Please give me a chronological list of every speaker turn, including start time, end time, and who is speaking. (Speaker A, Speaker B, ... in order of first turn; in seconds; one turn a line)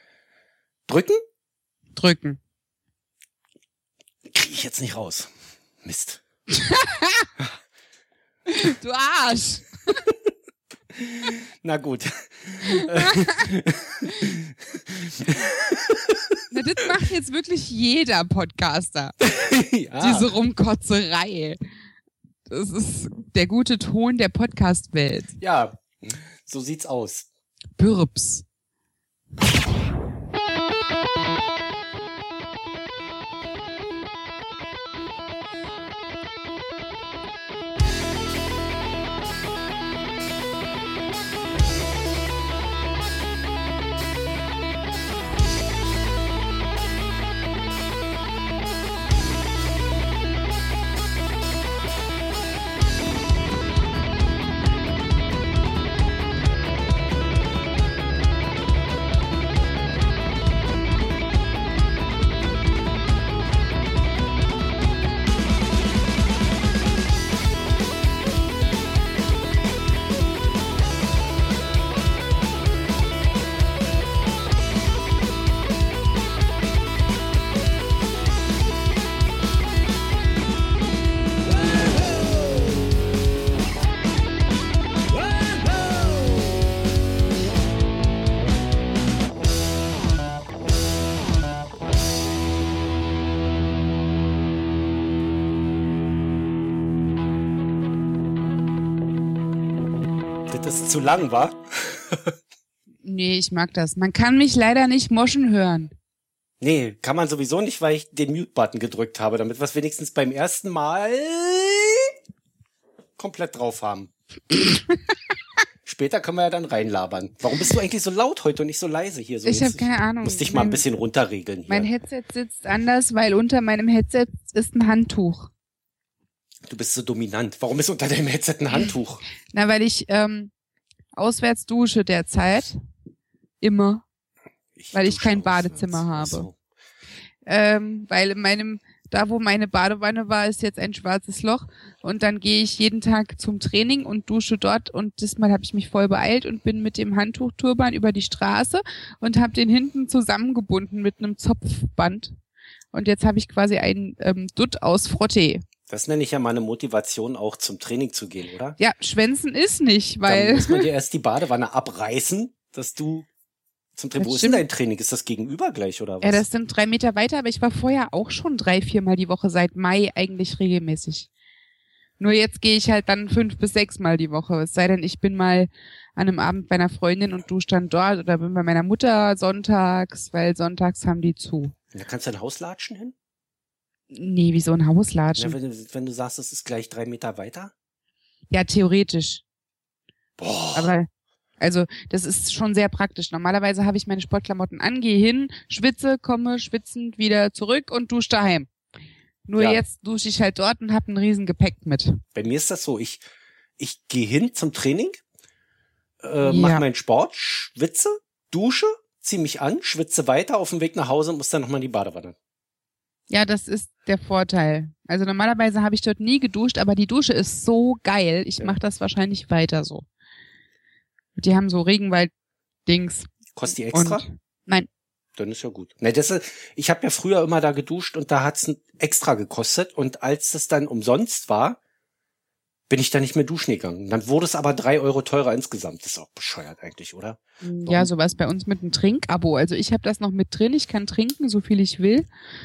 Speaker A: 0.9-1.2
Speaker B: 1.9-2.4
Speaker A: 4.3-5.3
Speaker A: 5.8-6.2
Speaker B: 6.5-7.3
Speaker B: 8.5-10.0
Speaker A: 11.0-16.4
Speaker B: 12.7-13.4
Speaker B: 16.5-19.1
Speaker A: 19.2-20.3
Speaker B: 20.0-21.6
Speaker B: 22.5-25.3
Speaker A: 25.4-27.3
Speaker B: 27.8-28.4
Speaker A: 100.5-102.3
Speaker B: 103.0-105.9
Speaker A: 106.6-112.1
Speaker A: 113.2-114.1
Speaker A: 115.8-121.9
Speaker B: 119.5-120.8
Speaker B: 121.7-125.5
Speaker A: 126.7-129.2
Speaker B: 129.5-130.5
Speaker B: 131.2-132.8
Speaker B: 133.6-134.0
Speaker A: 134.8-136.6
Speaker B: 134.9-136.5
Speaker B: 137.5-152.3
Speaker B: 152.9-155.6
Speaker A: 155.9-158.8
Speaker B: 158.8-160.9
Speaker A: 160.2-163.3
Speaker A: 164.0-166.4
Speaker B: 164.2-164.6
Speaker B: 166.2-171.3
Speaker B: 172.2-181.7
Speaker A: 181.9-183.2
Speaker B: 184.1-185.6
Speaker A: 185.3-187.7
Speaker B: 188.5-189.4
Speaker A: 190.4-190.9
Speaker B: 190.8-191.1
Speaker B: 191.6-198.7
Speaker B: 199.5-202.2
Speaker A: 199.6-199.8
Speaker A: 202.3-203.2
Speaker A: 203.8-205.2
Speaker A: 206.2-212.3
Speaker B: 206.4-206.8
Speaker B: 213.3-220.1
Speaker B: 221.3-222.3
Speaker B: 222.9-223.3
Speaker A: 223.6-224.2
Speaker B: 223.9-224.9
Speaker A: 225.4-231.8
Speaker A: 232.9-238.1
Speaker B: 237.6-242.3